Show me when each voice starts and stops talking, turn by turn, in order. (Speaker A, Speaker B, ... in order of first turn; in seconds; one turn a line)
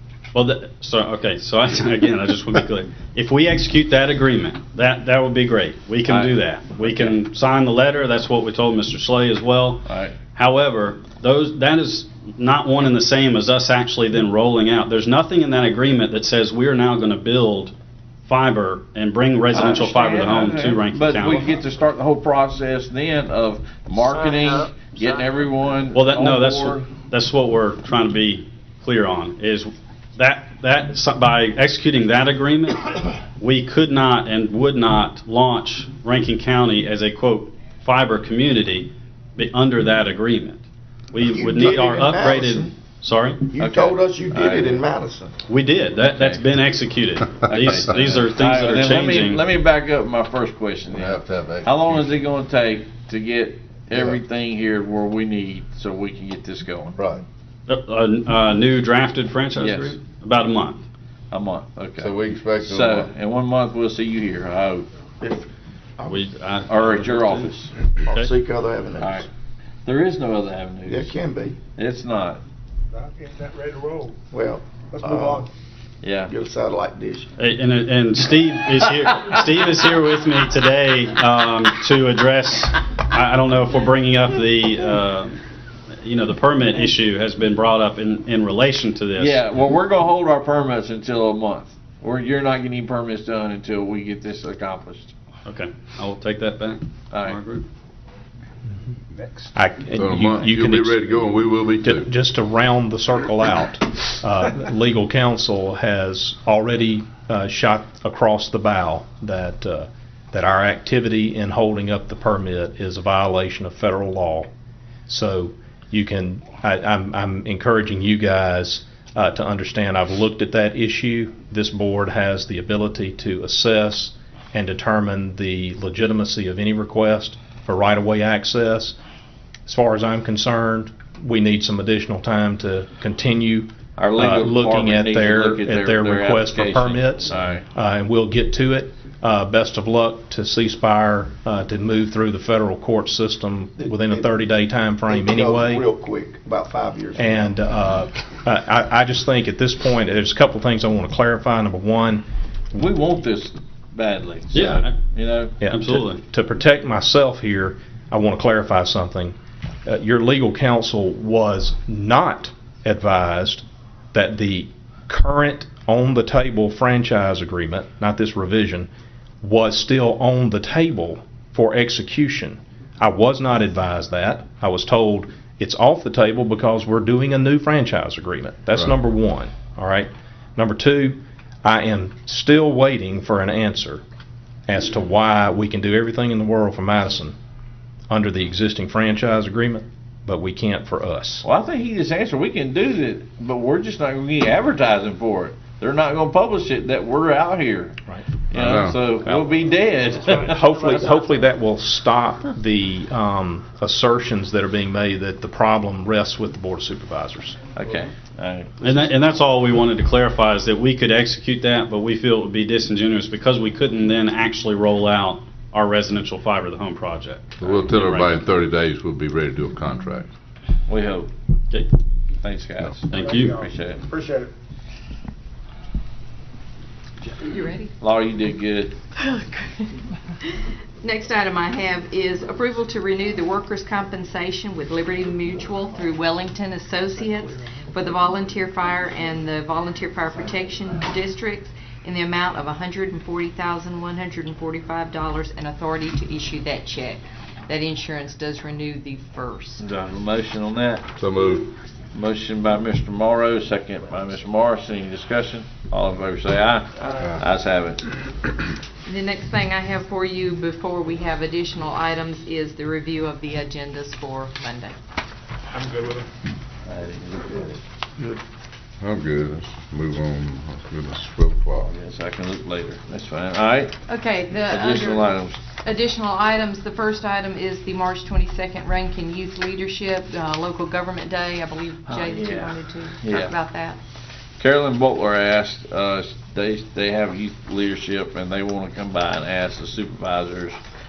Speaker A: 0.3-17.7
Speaker B: 6.1-7.1
Speaker B: 9.8-10.2
Speaker A: 18.3-21.4
Speaker B: 19.5-26.9
Speaker A: 25.9-43.5
Speaker C: 41.1-42.7
Speaker C: 43.5-45.3
Speaker B: 43.6-44.8
Speaker A: 45.5-49.4
Speaker B: 46.1-46.4
Speaker B: 47.5-57.0
Speaker D: 50.9-52.3
Speaker A: 57.7-60.8
Speaker B: 59.6-60.0
Speaker B: 61.3-64.9
Speaker D: 62.0-63.1
Speaker C: 65.2-65.5
Speaker C: 66.0-66.2
Speaker A: 66.1-67.5
Speaker B: 66.7-67.7
Speaker C: 68.0-69.2
Speaker B: 69.0-69.3
Speaker B: 69.8-71.1
Speaker C: 70.8-71.6
Speaker B: 71.8-72.4
Speaker E: 72.9-74.2
Speaker C: 74.3-75.5
Speaker E: 74.9-75.4
Speaker B: 76.0-76.3
Speaker C: 76.3-77.3
Speaker A: 77.4-85.4
Speaker A: 86.0-89.4
Speaker B: 89.2-95.1
Speaker A: 95.5-97.6
Speaker B: 97.1-97.4
Speaker F: 99.5-101.3
Speaker D: 100.0-102.1
Speaker F: 101.8-114.5
Speaker F: 115.1-129.0
Speaker F: 129.7-145.8
Speaker B: 134.0-137.6
Speaker C: 143.8-144.3
Speaker C: 145.1-147.6
Speaker F: 147.1-152.2
Speaker B: 152.7-155.5
Speaker A: 154.5-154.9
Speaker F: 154.6-154.8
Speaker F: 155.6-168.9
Speaker A: 155.7-156.2
Speaker F: 169.4-184.0
Speaker F: 184.7-187.3
Speaker F: 188.1-191.4
Speaker B: 191.4-198.0
Speaker B: 198.5-200.6
Speaker D: 198.5-199.0
Speaker E: 200.2-201.3
Speaker F: 200.4-207.6
Speaker B: 207.8-209.0
Speaker A: 208.8-218.5
Speaker D: 217.6-220.3
Speaker B: 220.9-221.3
Speaker B: 222.4-224.0
Speaker A: 223.1-223.6
Speaker E: 223.1-224.5
Speaker G: 227.3-227.9
Speaker B: 228.0-228.9
Speaker G: 229.1-249.8
Speaker B: 249.8-251.1
Speaker D: 251.2-251.7
Speaker B: 252.1-258.1
Speaker G: 259.1-264.9
Speaker E: 265.7-266.2
Speaker B: 266.9-267.8
Speaker D: 269.0-271.9
Speaker B: 271.8-274.0
Speaker G: 274.1-284.0
Speaker B: 274.6-275.6
Speaker B: 282.1-283.5
Speaker B: 284.6-290.8